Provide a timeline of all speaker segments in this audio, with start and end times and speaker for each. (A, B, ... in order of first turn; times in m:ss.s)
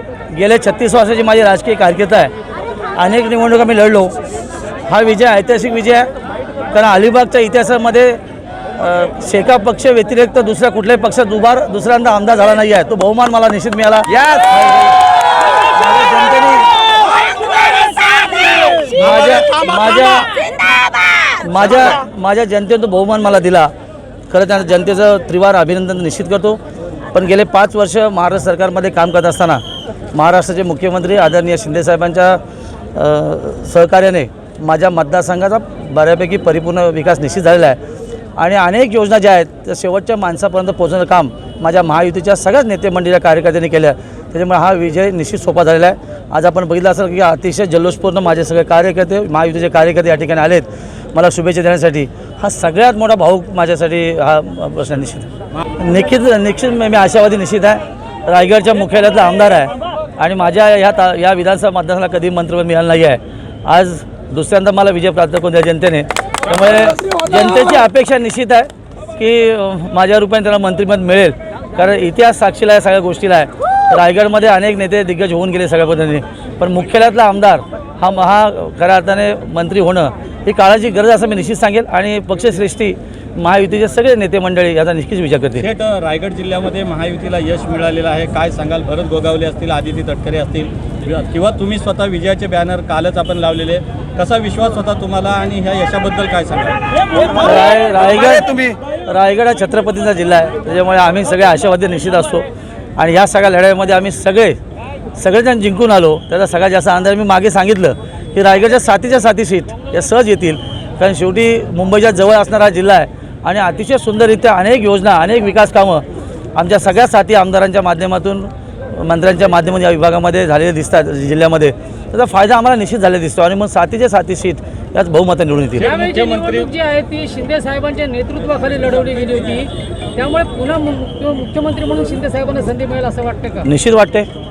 0:00.3-0:02.3 A
0:03.0-0:04.1 A
0:04.9-0:06.1 A
0:06.7-0:08.2 A
0:08.7-0:14.9 A
0:15.7-0:16.7 A
0:18.9-0:20.3 A
0:21.3-0:23.7 A
0:24.3-0:26.6 A
0:27.1-0:29.6 A
0:30.1-0:32.4 A
0:32.9-0:37.8 A
0:38.4-1:25.6 A
1:25.6-1:36.8 B
1:37.3-1:42.4 A
1:38.4-1:38.8 B
1:43.0-1:44.6 A
1:45.2-1:56.0 A
1:56.6-2:05.9 A
2:05.8-2:06.7 B
2:05.9-2:13.6 C
2:13.6-2:14.3 A